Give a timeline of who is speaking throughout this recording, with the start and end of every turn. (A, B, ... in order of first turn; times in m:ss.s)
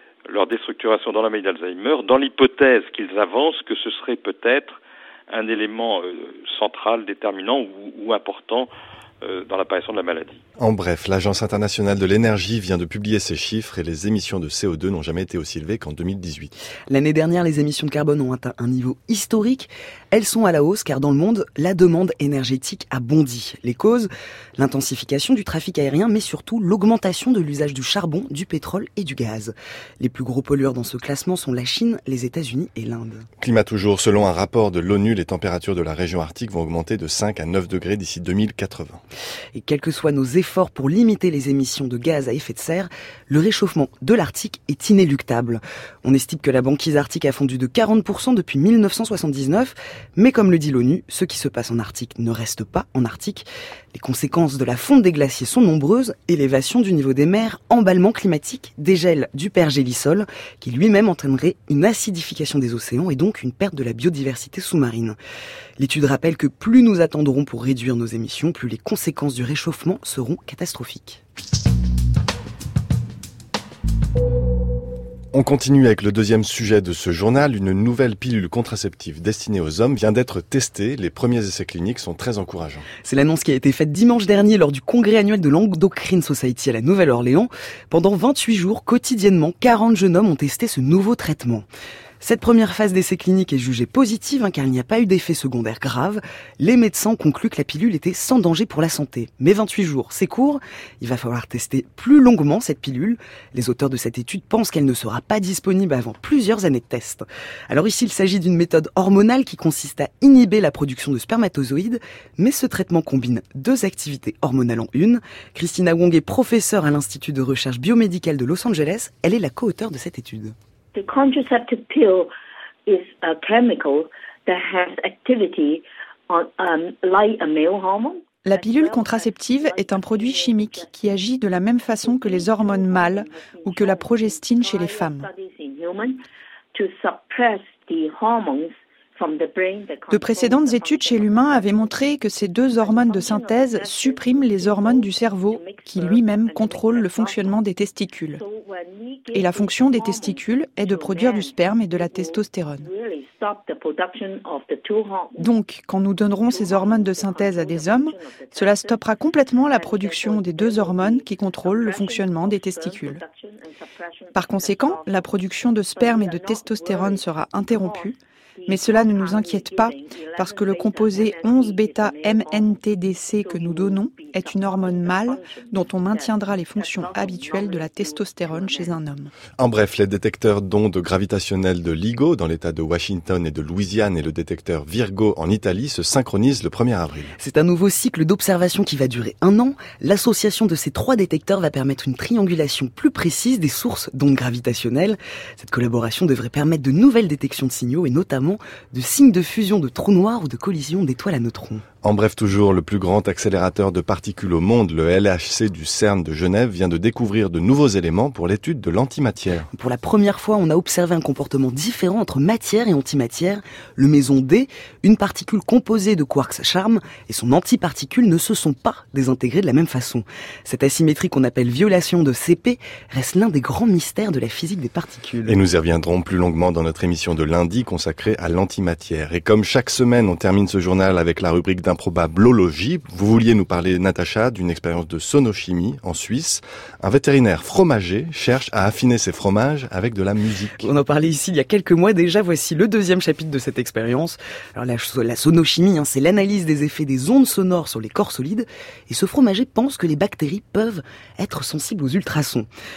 0:00.3-0:08.7 A
0:09.2-0:10.4 A
0:10.6-0:16.5 B
0:16.9-0:33.2 C
0:33.4-0:39.0 B
0:39.5-1:05.2 C
1:05.8-1:11.2 C
1:15.3-1:22.9 B
1:23.0-1:31.6 C
1:32.2-2:00.5 C
2:00.9-2:02.3 D
2:02.8-2:11.0 D
2:08.4-2:15.3 E
2:11.9-2:16.2 D
2:16.7-2:27.6 D
2:20.1-2:28.4 E
2:28.3-2:35.4 D
2:29.3-2:32.8 E
2:35.4-2:43.2 E
2:36.4-2:59.0 D
2:44.3-2:48.2 E
2:48.7-2:59.3 E
2:59.6-3:07.3 B
3:07.4-3:21.8 C
3:22.0-3:29.7 B
3:29.7-3:45.6 C
3:45.4-4:00.9 B
4:00.8-4:12.7 C